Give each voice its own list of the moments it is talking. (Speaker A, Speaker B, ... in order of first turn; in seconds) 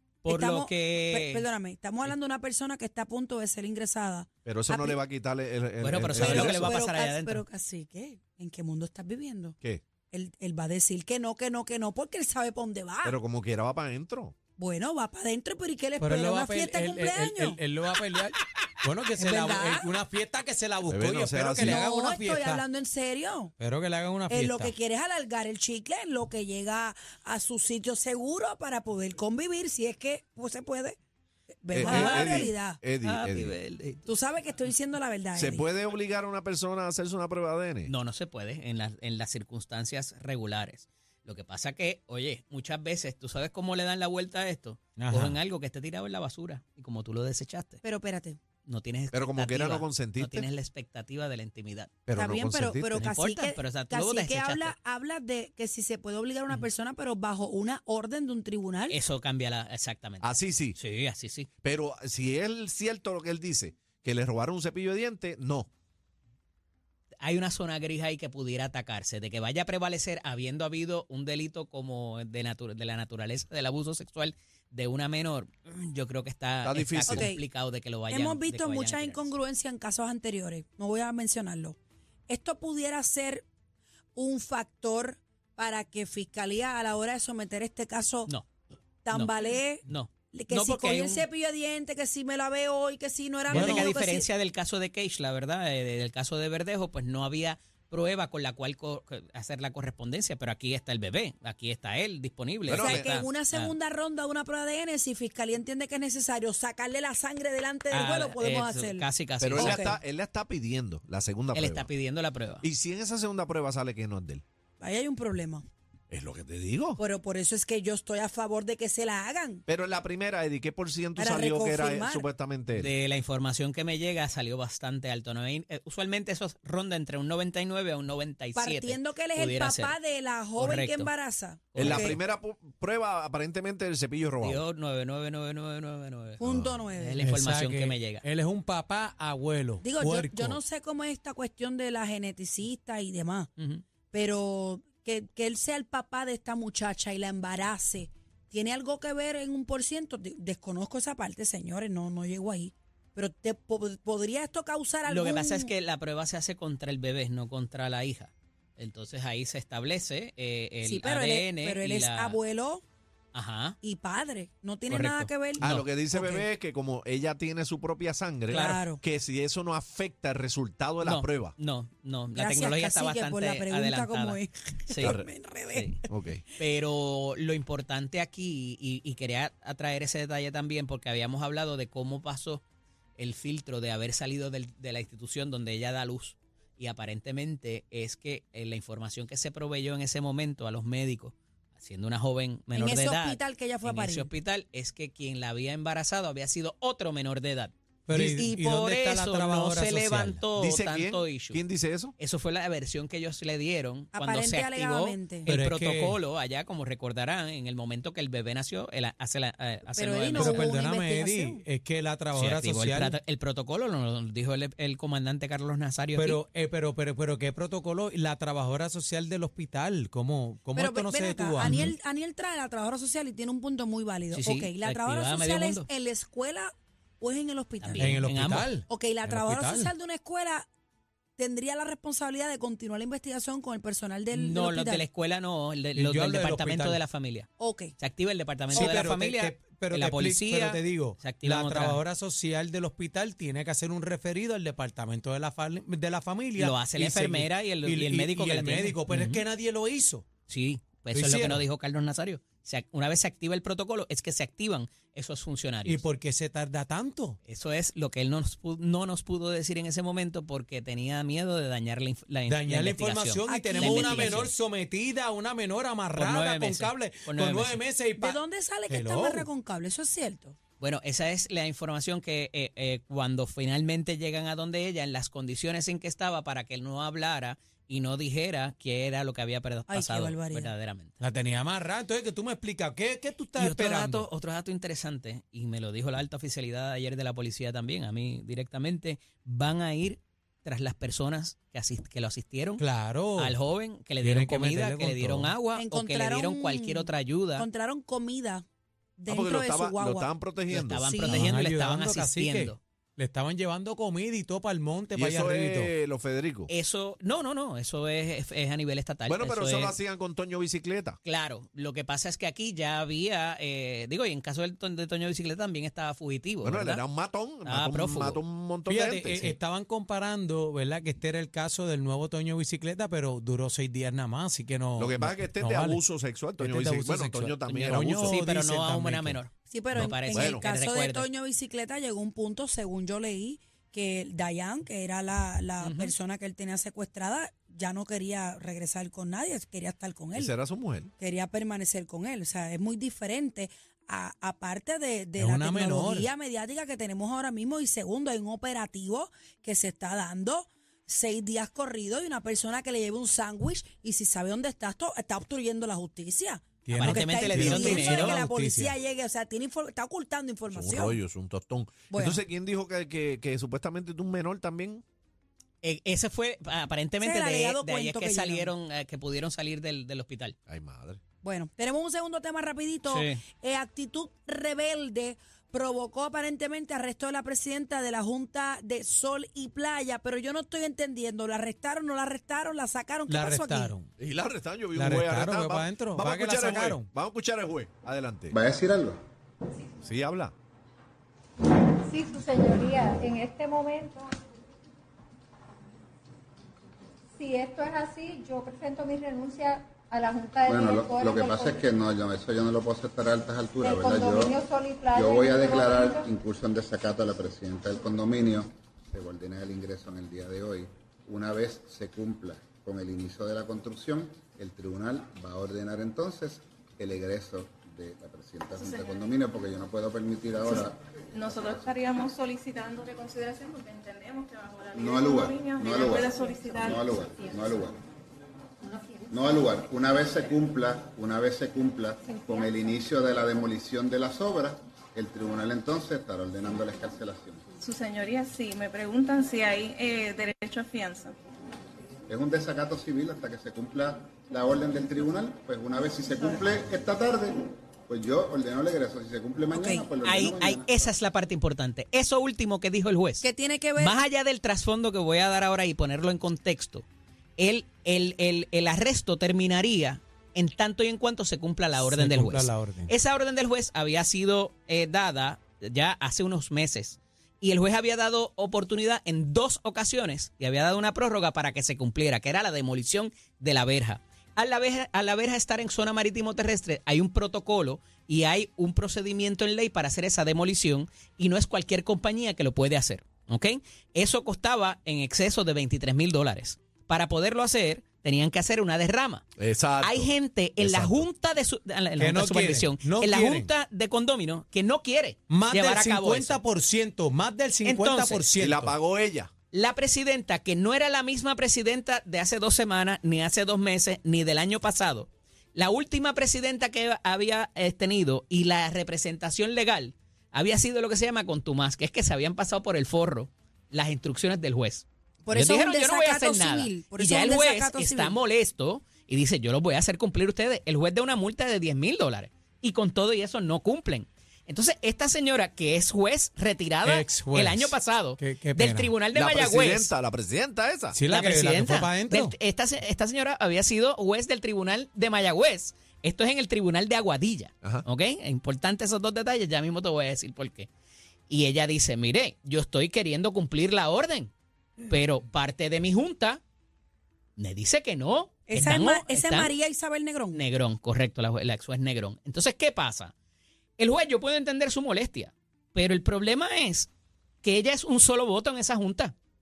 Speaker A: 0.2-1.5, 5.8-7.4, 31.8-34.1, 37.9-47.8, 48.7-51.9, 52.9-54.7, 58.9-61.5, 67.2-79.3, 89.9-91.2, 93.5-103.7, 107.9-109.9, 111.5-112.6, 122.7-129.9, 130.6-131.1, 131.7-132.2, 134.4-136.4, 137.0-138.2, 143.6-143.8, 155.1-162.4, 163.3-163.8, 164.9-165.8, 171.0-175.2, 175.7-176.0, 176.6-182.6, 183.2-201.6, 202.2-210.7, 212.3-216.4, 221.6-221.9, 224.3-225.9, 227.8-228.7, 234.3-242.0, 246.6-249.4, 250.5-256.0, 257.4-264.5, 266.2-267.8, 270.8-281.2, 283.6-292.8, 293.4-297.7, 300.7-302.8, 306.7-309.9, 311.2-317.0, 317.7-318.4, 327.7-331.3, 335.8-336.1, 356.9-358.4, 365.8-370.6, 373.1-373.4, 450.2-453.4, 454.0-457.1, 457.6-489.4, 490.0-496.6, 497.9-498.5, 499.7-530.1, 531.3-540.9, 541.5-546.6, 547.6-549.7, 550.5-553.3, 554.0-557.1, 557.6-559.3
Speaker B: 0.3-5.0, 6.1-9.6, 10.1-13.2, 14.6-17.6, 19.2-19.9, 21.6-23.5, 24.3-31.0, 31.6-32.8, 34.0-35.7, 47.8-48.4, 52.1-59.0, 77.1-77.4, 78.1-81.8, 82.3-83.5, 84.2-88.3, 89.0-94.3, 102.8-110.0, 114.8-115.7, 117.0-119.6, 121.2-122.3, 128.6-132.2, 136.4-137.2, 139.8-143.5, 144.1-155.7, 160.8-162.8, 163.8-166.5, 168.5-169.0, 172.3-176.6, 192.7-194.3, 204.1-205.5, 209.9-211.6, 220.8-228.2, 228.9-230.7, 231.4-235.1, 237.6-237.9, 263.5-264.5, 268.2-270.6, 279.9-280.7, 295.7-298.6, 299.2-300.3, 301.0-301.5, 329.7-340.5, 341.2-361.2, 362.1-362.4, 367.2-368.7, 371.4-383.9, 449.7-450.1, 453.4-454.2, 515.5-518.4, 548.7-550.6
Speaker C: 4.5-6.7, 13.0-14.3, 20.9-21.8, 31.7-33.5, 35.4-37.9, 49.1-50.5, 52.1-53.1, 60.2-60.8, 61.6-65.7, 76.6-77.3, 102.7-103.1, 109.4-111.9, 112.6-114.4, 116.1-117.0, 119.7-122.9, 131.8-134.6, 136.4-136.8, 165.6-171.6, 175.0-175.3, 176.1-176.4, 200.6-202.2, 299.3-301.0, 305.1-306.7, 309.3-311.2, 316.6-319.5, 325.0-328.4, 330.3-330.7, 340.4-341.1, 360.7-365.0, 370.7-371.2, 384.2-388.6, 390.0-390.5, 489.6-491.3, 498.6-499.5, 529.3-531.2
Speaker D: 16.0-22.6, 23.6-24.7, 45.0-45.4, 137.2-140.6, 198.1-200.4, 205.5-206.2, 210.3-213.2, 216.2-221.8, 228.0-229.9, 235.9-237.0, 238.7-250.3, 251.1-251.7, 255.8-257.4, 262.5-269.5, 281.2-284.3, 292.8-293.6, 294.2-295.6, 301.3-305.9, 318.9-326.0, 326.6-329.4, 345.4-346.3, 356.9-358.9, 383.3-384.1, 384.9-387.1, 462.0-463.1, 492.2-493.7, 495.5-498.9, 527.0-529.1, 531.1-532.5
Speaker E: 388.5-389.2, 400.7-404.6, 405.1-421.9, 425.0-426.2, 426.9-428.0, 429.3-437.6, 442.3-451.1
Speaker F: 392.0-394.3, 397.4-401.8, 403.8-406.3
Speaker G: 418.8-419.1, 421.3-427.6, 437.8-441.4